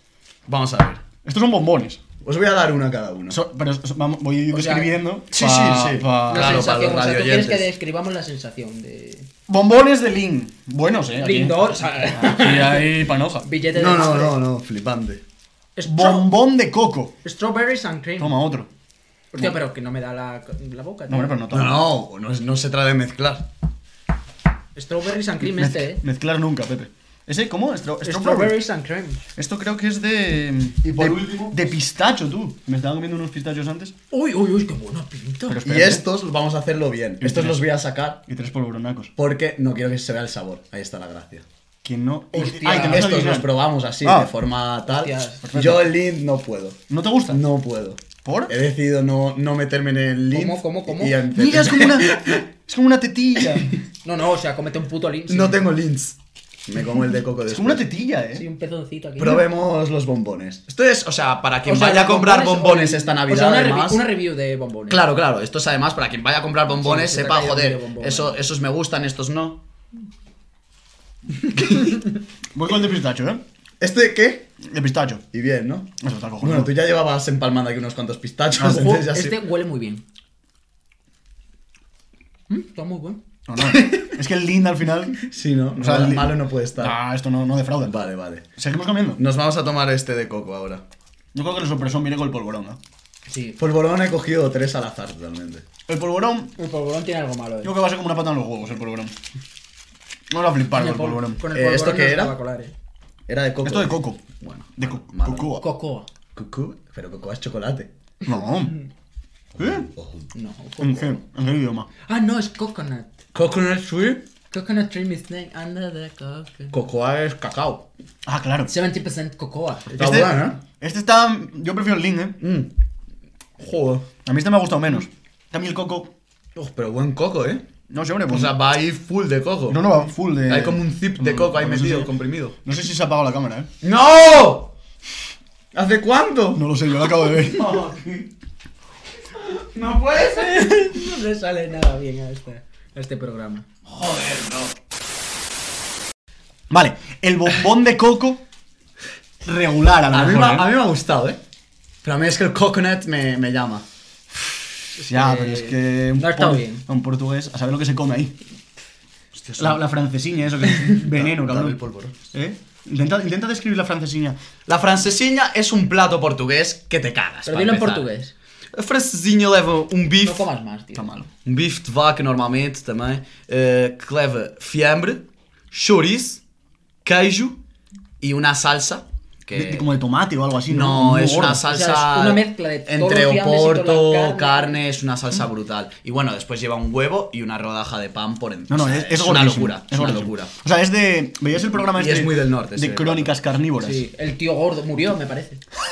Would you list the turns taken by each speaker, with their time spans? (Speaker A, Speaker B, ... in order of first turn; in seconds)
Speaker A: 0.5-1.1, 2.2-3.4, 5.3-7.7, 13.7-15.2, 21.5-23.5, 30.8-31.8, 35.6-38.2, 39.2-41.5, 42.7-52.4, 55.3-57.8, 59.2-64.1, 64.9-69.6, 71.5-72.0, 73.8-74.5, 75.3-79.4, 83.8-84.1, 85.2-87.0, 87.8-88.5, 89.2-90.8, 93.6-95.7, 101.5-102.3, 103.3-105.5, 106.3-107.9, 109.6-110.3, 113.3-114.2, 116.7-117.9, 119.9-120.6, 122.4-122.7, 123.6-124.1, 126.5-127.6, 128.3-129.8, 130.5-132.6, 133.8-134.7, 135.7-136.6, 137.3-138.3, 139.7-140.7, 143.9-144.7, 150.1-151.4, 152.0-153.8, 159.3-159.8, 160.9-162.2, 164.7-168.1, 168.7-170.5, 171.4-176.4, 177.1-177.6, 178.2-179.9, 180.7-190.5, 191.8-193.3
Speaker B: 1.2-2.0, 3.3-6.7, 9.5-13.5, 15.8-17.1, 18.2-18.7, 21.1-21.9, 25.4-28.6, 29.4-33.9, 35.5-36.0, 37.2-37.6, 38.3-39.1, 41.8-44.3, 45.4-45.9, 46.9-47.4, 48.2-48.5, 51.3-53.8, 57.5-58.5, 72.5-73.4, 74.6-75.2, 76.0-76.7, 83.5-85.2, 85.8-88.0, 88.6-89.2, 91.3-92.8, 95.9-96.5, 97.6-99.2, 100.3-101.4, 103.6-104.2, 104.8-105.7, 108.2-108.8, 109.6-109.9, 110.8-111.9, 118.2-118.7, 120.0-122.4, 124.2-126.1, 127.9-128.5, 129.7-132.1, 132.6-133.7, 136.6-137.9, 146.7-148.4, 149.4-150.7, 155.0-158.4, 159.6-161.8, 162.3-164.4, 170.9-171.3, 179.5-181.6, 188.7-194.1
Speaker C: 4.5-4.9, 6.3-9.3, 11.2-14.4, 15.8-16.3, 17.2-18.4, 19.3-21.4, 24.8-26.0, 28.0-29.2, 34.1-35.6, 42.3-43.2, 44.9-45.4, 50.3-51.2, 54.0-55.6, 58.3-59.5, 61.6-65.0, 66.8-68.4, 78.6-80.0, 82.5-83.2, 93.3-93.6, 96.6-97.7, 100.7-102.7, 105.6-106.1, 110.3-111.2, 112.1-113.2, 114.5-116.7, 118.7-120.0, 140.1-143.7, 155.0-156.8, 167.5-168.3, 170.2-171.1, 181.7-184.8, 193.8-195.6